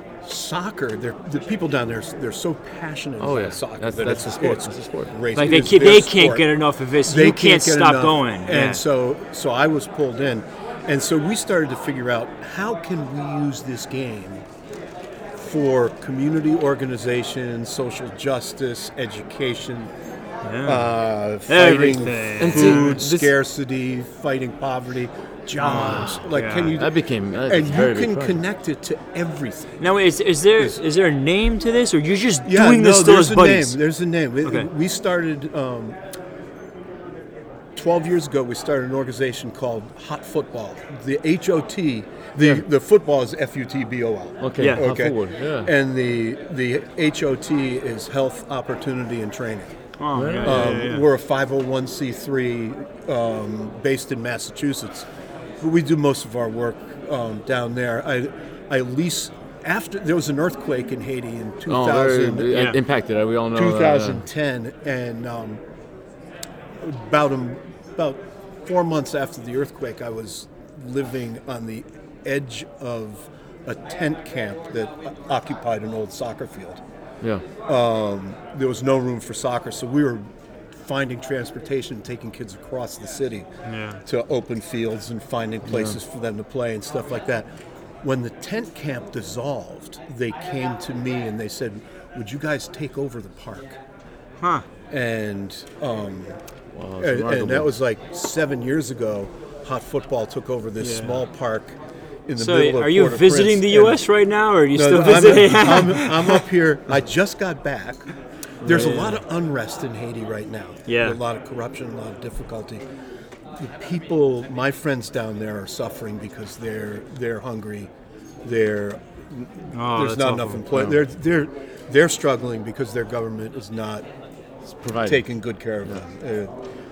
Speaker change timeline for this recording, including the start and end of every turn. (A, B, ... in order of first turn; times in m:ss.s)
0:00.2-0:14.4 A
0:03.2-0:05.1 B
0:05.3-0:08.8 C
0:15.4-0:19.9 A
0:20.4-0:23.0 C
0:20.6-0:26.9 A
0:22.4-0:23.3 B
0:25.6-0:26.8 C
0:26.8-0:28.4 B
0:27.4-0:29.9 A
0:29.8-0:33.8 C
0:32.4-0:36.0 A
0:37.7-0:49.7 A
0:42.4-0:42.6 B
0:44.4-0:45.7 B
0:44.6-0:44.8 C
0:50.0-0:51.1 C
0:50.1-0:50.8 B
0:50.4-0:55.1 A
0:55.6-1:02.6 A
1:01.7-1:04.2 B
1:02.5-1:02.8 C
1:03.5-1:05.6 A
1:06.8-1:16.8 A
1:17.6-1:20.2 A
1:20.8-1:23.5 A
1:23.6-1:24.0 C
1:24.0-1:27.5 A
1:25.6-1:26.0 B
1:28.0-1:33.8 A
1:34.4-1:34.6 C
1:34.9-1:36.4 A
1:36.7-1:37.7 B
1:37.0-1:44.0 A
1:40.8-1:41.2 C
1:42.4-1:46.4 C
1:44.7-1:48.1 A
1:48.6-1:52.8 A
1:48.7-1:49.2 C
1:50.9-1:51.2 C
1:53.6-1:57.9 A
1:58.4-2:04.0 A
1:59.7-2:00.6 C
2:00.7-2:01.0 B
2:04.7-2:05.2 B
2:05.0-2:06.5 A